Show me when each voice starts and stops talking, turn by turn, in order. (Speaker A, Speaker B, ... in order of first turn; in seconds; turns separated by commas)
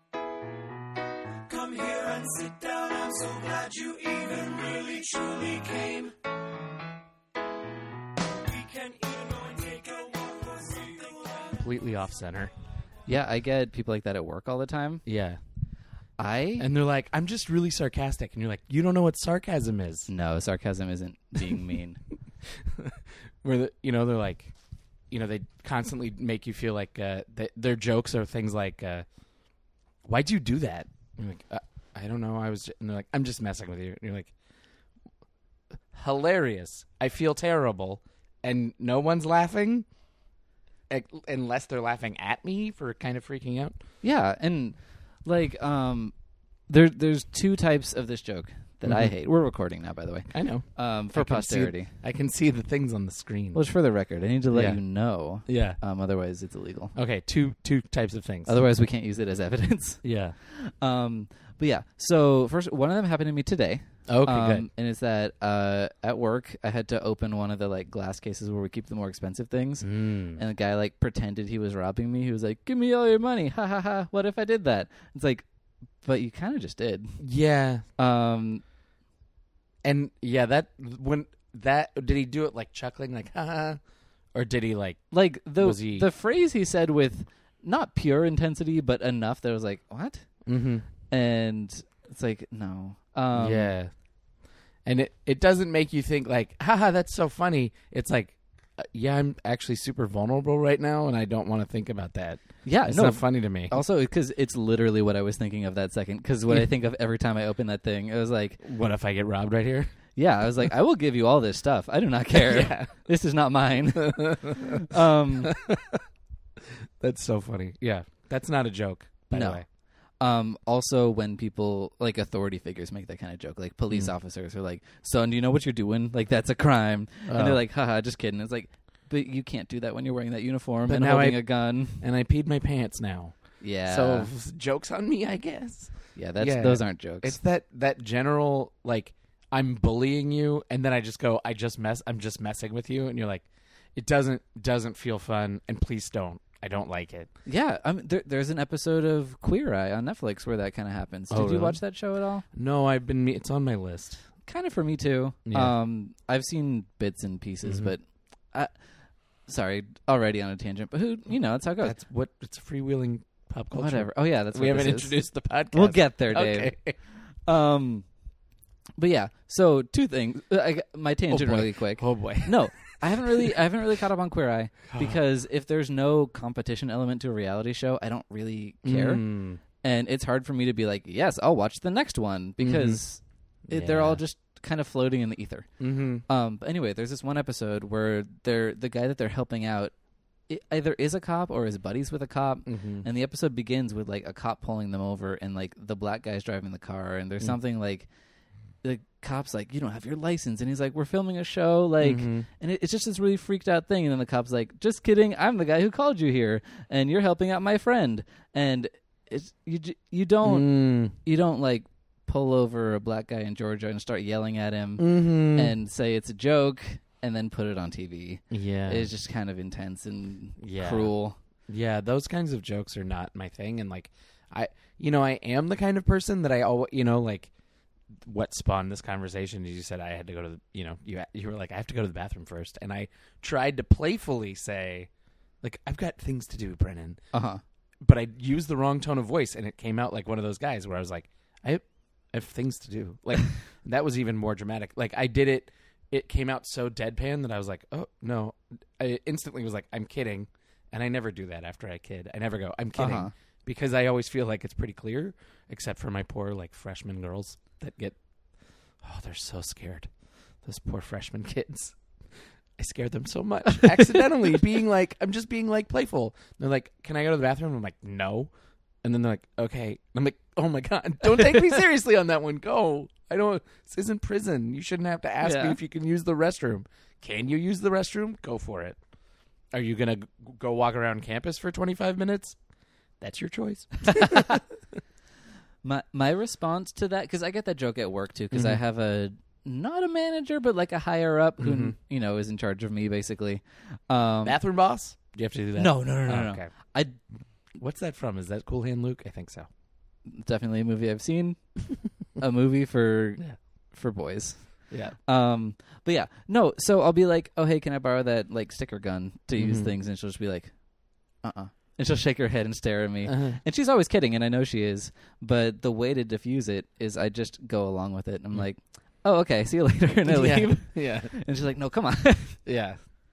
Speaker A: 1.5-6.1, Speaker A: 8.4-11.6, Speaker B: 11.6-12.5, Speaker C: 13.1-15.0, Speaker B: 15.1-15.4, Speaker C: 16.2-16.7, Speaker B: 16.6-20.1, Speaker C: 20.1-22.0, Speaker B: 22.5-24.5, Speaker B: 25.1-29.1, Speaker B: 30.0-34.3, Speaker B: 35.9-39.9, Speaker B: 40.9-43.8, Speaker C: 44.0-46.1, Speaker C: 46.7-51.9, Speaker B: 48.8-49.1, Speaker B: 50.3-53.6, Speaker C: 53.5-57.0, Speaker B: 54.5-54.8, Speaker B: 55.5-55.8, Speaker B: 57.0-58.6, Speaker C: 58.5-75.5, Speaker B: 60.0-60.4, Speaker B: 64.1-64.7, Speaker B: 69.8-70.4, Speaker C: 76.0-77.2, Speaker B: 77.2-77.8, Speaker C: 78.0-78.6, Speaker B: 79.8-83.8, Speaker B: 84.3-86.1, Speaker C: 85.1-90.3, Speaker B: 90.5-90.9, Speaker C: 91.1-93.7, Speaker B: 93.3-93.9, Speaker B: 94.8-103.8, Speaker C: 102.7-108.6, Speaker B: 108.6-109.9, Speaker C: 110.2-115.6, Speaker B: 112.3-112.9, Speaker B: 113.9-116.0, Speaker B: 117.0-119.6, Speaker C: 119.3-119.6, Speaker C: 120.2-132.0, Speaker B: 127.3-127.6, Speaker B: 130.9-131.4, Speaker B: 131.9-147.3, Speaker C: 133.6-134.3, Speaker C: 136.2-137.4, Speaker C: 147.5-152.4, Speaker B: 151.3-151.8, Speaker B: 152.5-154.2, Speaker C: 154.5-158.7, Speaker B: 155.5-155.7, Speaker B: 157.7-157.9, Speaker C: 159.5-162.0, Speaker B: 161.8-167.0, Speaker C: 163.7-165.2, Speaker C: 165.7-166.8, Speaker C: 167.4-168.1, Speaker C: 169.0-179.3, Speaker B: 171.3-173.5, Speaker B: 178.8-179.6, Speaker C: 179.8-185.7, Speaker B: 182.6-183.0, Speaker B: 183.7-184.2, Speaker B: 185.8-186.2, Speaker C: 186.3-189.9, Speaker C: 190.5-198.1, Speaker B: 192.7-193.1, Speaker C: 198.8-221.4, Speaker B: 202.0-202.5, Speaker B: 210.4-211.1, Speaker B: 215.0-215.8, Speaker B: 218.5-219.1, Speaker B: 220.6-221.1, Speaker B: 221.7-227.5, Speaker B: 228.2-235.1, Speaker B: 235.6-237.2, Speaker C: 237.3-237.6, Speaker B: 238.0-258.2, Speaker C: 253.0-253.3, Speaker B: 259.0-260.1, Speaker B: 260.6-262.0, Speaker B: 262.8-268.5, Speaker B: 269.0-279.0, Speaker C: 275.4-275.8, Speaker B: 279.7-282.6, Speaker B: 283.2-284.6, Speaker C: 284.1-284.6, Speaker C: 285.8-294.6, Speaker B: 288.5-288.8, Speaker B: 291.6-292.0, Speaker B: 294.4-296.7, Speaker C: 295.8-297.2, Speaker B: 297.8-299.7, Speaker C: 300.3-301.8, Speaker C: 302.4-303.4, Speaker C: 303.9-310.7, Speaker B: 304.9-305.2, Speaker B: 309.6-309.9, Speaker C: 311.4-322.6, Speaker B: 313.3-313.6, Speaker B: 320.3-321.3, Speaker B: 322.6-323.0